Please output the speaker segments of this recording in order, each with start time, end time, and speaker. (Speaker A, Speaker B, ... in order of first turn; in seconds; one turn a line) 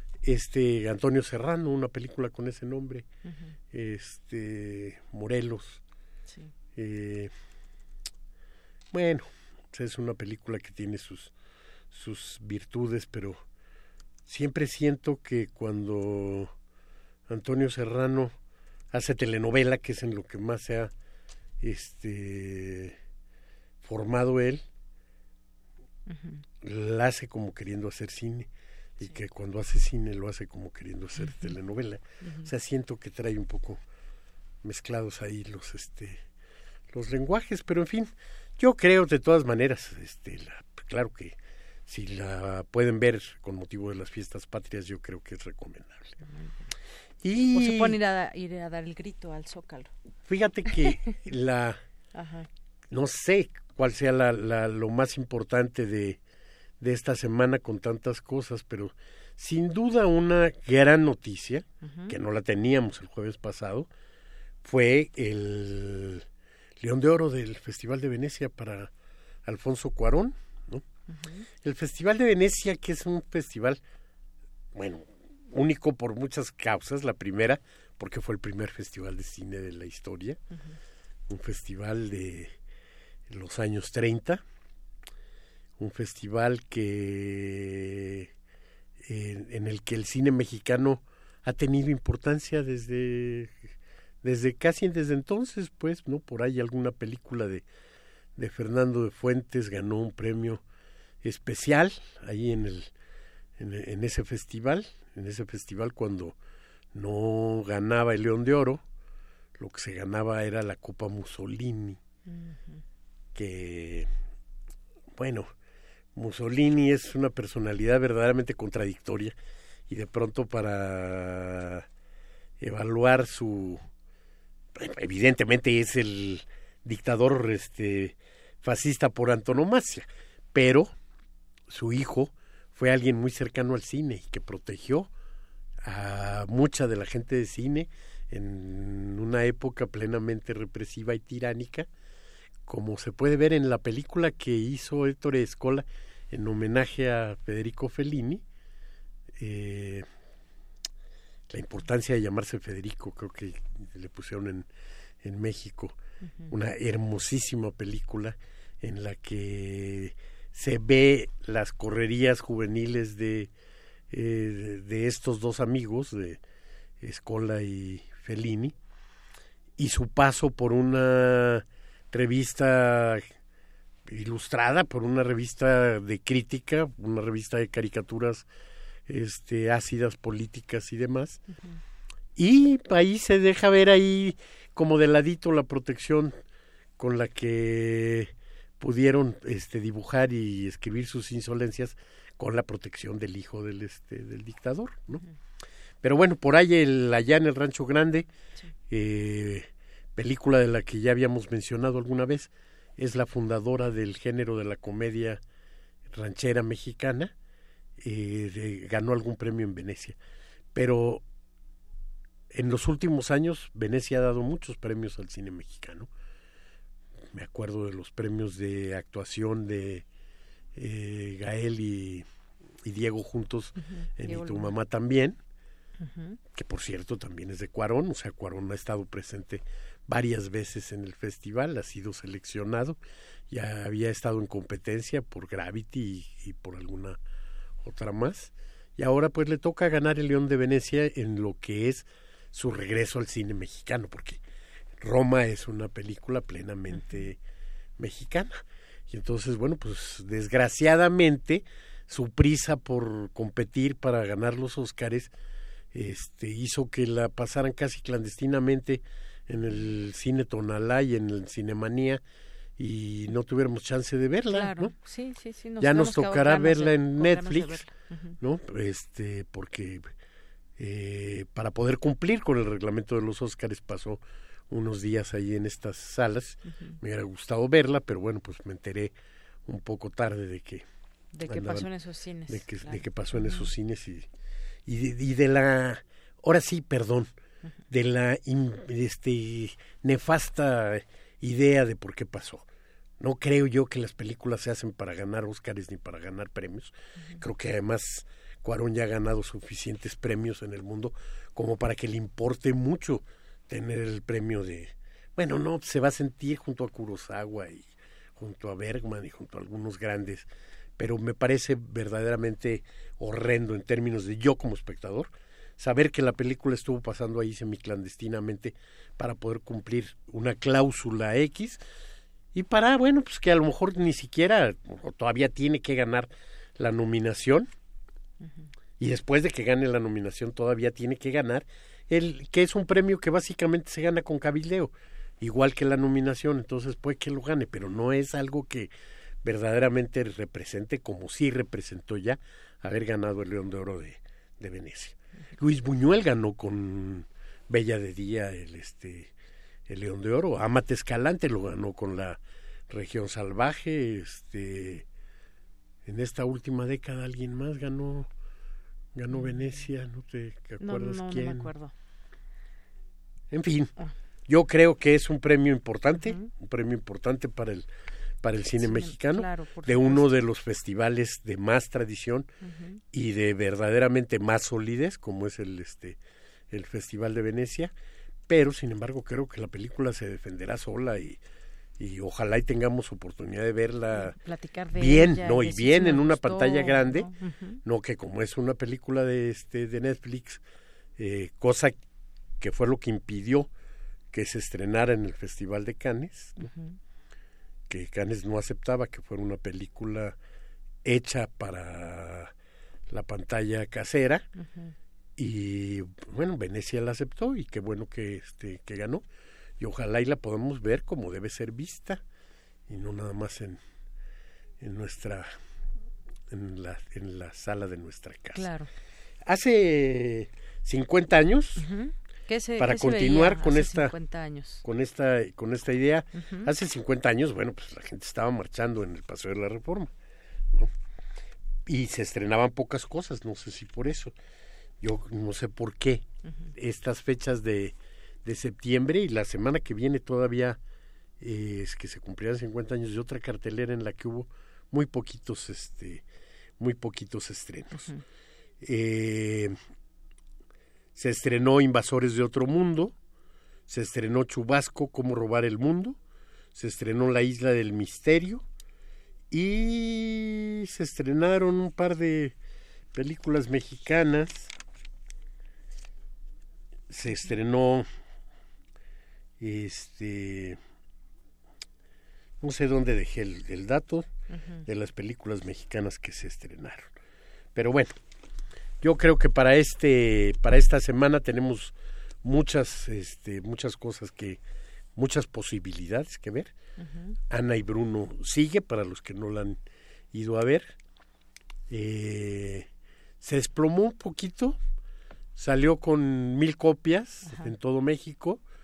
Speaker A: 0.2-3.0
Speaker B: 3.3-3.5
Speaker A: 3.7-5.8
Speaker A: 6.8-7.3
Speaker A: 8.9-11.3
Speaker A: 11.9-13.4
Speaker A: 14.3-16.5
Speaker A: 17.3-18.3
Speaker A: 18.9-20.9
Speaker A: 21.6-22.9
Speaker A: 23.8-24.6
Speaker B: 26.1-26.4
Speaker A: 26.6-28.5
Speaker A: 29.0-33.8
Speaker B: 31.2-31.5
Speaker B: 32.2-32.5
Speaker A: 34.6-36.2
Speaker A: 36.9-41.4
Speaker A: 41.9-46.1
Speaker B: 46.2-46.5
Speaker A: 47.2-48.0
Speaker B: 47.5-49.9
Speaker A: 50.3-51.8
Speaker B: 52.1-52.5
Speaker A: 52.9-56.2
Speaker A: 56.8-63.9
Speaker B: 61.8-62.1
Speaker A: 64.6-66.2
Speaker A: 66.8-68.9
Speaker A: 69.5-70.8
Speaker B: 71.1-71.5
Speaker A: 71.6-73.8
Speaker A: 74.8-80.4
Speaker A: 81.3-82.5
Speaker A: 83.3-84.4
Speaker A: 85.8-88.3
Speaker A: 89.0-93.5
Speaker A: 94.2-97.7
Speaker A: 98.4-100.6
Speaker A: 101.2-102.9
Speaker A: 103.6-106.3
Speaker A: 107.0-108.8
Speaker A: 109.6-112.0
Speaker B: 112.3-112.8
Speaker A: 113.3-114.1
Speaker A: 115.2-115.5
Speaker A: 116.2-119.3
Speaker A: 119.9-121.8
Speaker A: 122.6-123.8
Speaker A: 124.8-130.9
Speaker A: 131.7-135.1
Speaker A: 135.8-141.9
Speaker A: 142.7-148.4
Speaker A: 149.4-150.1
Speaker A: 151.5-154.7
Speaker A: 155.2-155.9
Speaker B: 156.2-156.5
Speaker A: 156.5-163.5
Speaker A: 164.1-166.4
Speaker A: 167.0-168.7
Speaker A: 169.8-173.2
Speaker A: 174.1-178.5
Speaker A: 179.1-181.4
Speaker B: 181.5-181.8
Speaker A: 182.4-186.3
Speaker A: 187.0-195.2
Speaker A: 196.0-198.3
Speaker A: 198.9-205.4
Speaker A: 206.1-207.3
Speaker A: 208.0-210.2
Speaker A: 210.8-211.2
Speaker A: 212.5-216.1
Speaker A: 217.3-220.1
Speaker A: 220.8-222.2
Speaker A: 222.8-225.4
Speaker B: 223.9-224.8
Speaker B: 226.0-226.4
Speaker A: 226.5-233.0
Speaker A: 233.5-237.2
Speaker A: 237.8-244.4
Speaker A: 245.0-247.4
Speaker B: 246.9-247.3
Speaker A: 248.0-255.3
Speaker A: 255.9-262.2
Speaker B: 259.5-259.9
Speaker A: 262.8-264.9
Speaker B: 264.5-268.4
Speaker A: 265.8-267.9
Speaker A: 268.4-270.1
Speaker A: 270.8-279.1
Speaker B: 276.7-276.9
Speaker A: 279.7-280.8
Speaker B: 281.3-283.7
Speaker A: 281.4-281.9
Speaker A: 282.5-284.3
Speaker A: 284.9-287.3
Speaker A: 287.9-292.6
Speaker A: 293.2-310.5
Speaker A: 311.0-321.8
Speaker A: 322.5-327.7
Speaker B: 328.4-328.7
Speaker A: 329.0-338.9
Speaker A: 339.4-349.3
Speaker A: 349.9-352.4
Speaker A: 352.9-355.0
Speaker A: 356.1-358.3
Speaker A: 359.1-361.7
Speaker B: 359.3-359.9
Speaker B: 360.8-361.9
Speaker A: 363.5-363.9
Speaker A: 364.5-367.9
Speaker B: 366.1-366.5
Speaker A: 368.4-372.5
Speaker B: 368.8-370.4
Speaker B: 372.6-373.0
Speaker A: 373.1-376.2
Speaker A: 376.7-377.9
Speaker A: 378.5-381.4
Speaker A: 382.0-384.4
Speaker B: 384.1-387.8
Speaker A: 384.9-387.3
Speaker A: 387.9-390.6
Speaker A: 391.2-391.9
Speaker A: 392.6-393.7
Speaker A: 394.3-396.6
Speaker B: 396.6-396.9
Speaker A: 397.9-400.4
Speaker A: 401.1-402.5
Speaker A: 403.1-404.4
Speaker B: 404.6-404.9
Speaker A: 405.4-409.2
Speaker A: 409.8-412.2
Speaker A: 412.9-413.8
Speaker A: 414.8-415.5
Speaker A: 416.5-418.7
Speaker B: 418.5-418.9
Speaker A: 419.4-421.8
Speaker B: 421.8-424.8
Speaker A: 422.8-424.1
Speaker A: 424.8-430.1
Speaker B: 426.4-426.7
Speaker A: 431.9-434.3
Speaker A: 435.0-436.2
Speaker A: 436.8-437.9
Speaker A: 438.4-440.8
Speaker A: 441.4-446.2
Speaker A: 446.8-448.1
Speaker B: 447.9-448.2
Speaker A: 448.8-449.8
Speaker A: 451.2-453.1
Speaker A: 453.9-456.2
Speaker A: 456.8-458.6
Speaker A: 459.5-462.6
Speaker A: 463.1-464.7
Speaker A: 467.1-468.1
Speaker A: 469.6-470.8
Speaker A: 472.6-474.3
Speaker B: 474.5-474.8
Speaker A: 474.9-477.1
Speaker A: 477.8-478.1
Speaker A: 479.0-484.6
Speaker A: 485.2-486.7
Speaker B: 487.0-487.3
Speaker A: 487.5-489.8
Speaker A: 490.3-490.9
Speaker A: 491.9-492.9
Speaker A: 493.4-494.8
Speaker A: 495.6-498.6
Speaker B: 497.4-497.7